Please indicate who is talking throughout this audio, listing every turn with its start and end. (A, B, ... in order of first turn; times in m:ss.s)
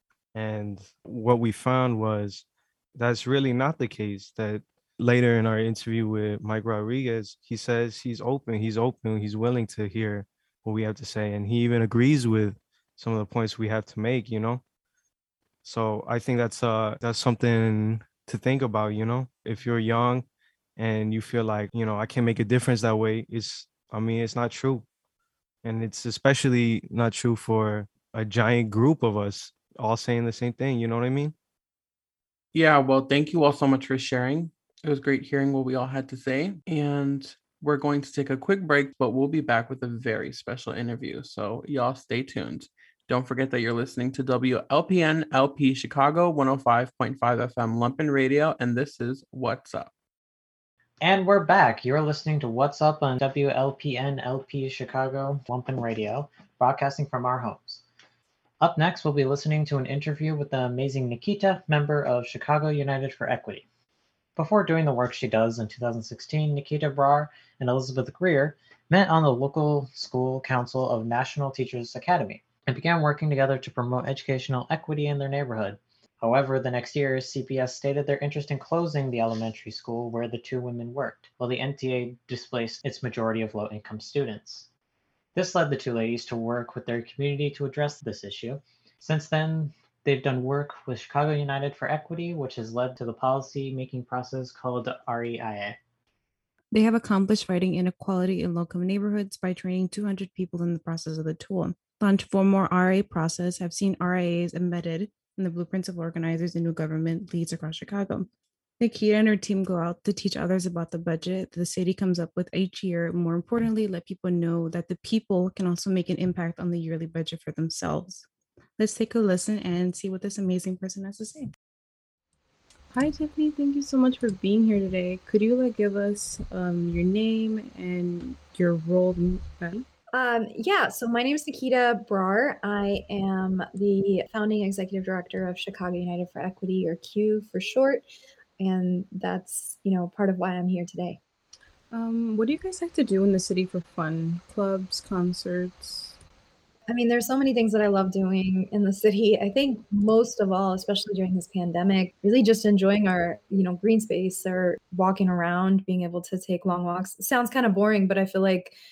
0:00.3-0:14.6 A
0:15.6-0:20.2 A
0:20.8-0:24.8 A
0:25.6-0:31.3 A
0:32.5-0:49.9 B
0:51.0-0:57.8 C
0:58.6-1:03.7 C
1:04.4-1:24.7 C
1:25.3-1:35.8 C
1:36.7-1:48.3 D
1:48.8-1:58.3 D
1:58.8-2:01.5 D
2:02.9-2:09.8 D
2:10.1-2:18.0 E
2:18.6-2:21.2 E
2:21.9-2:26.2 D
2:26.9-2:38.8 E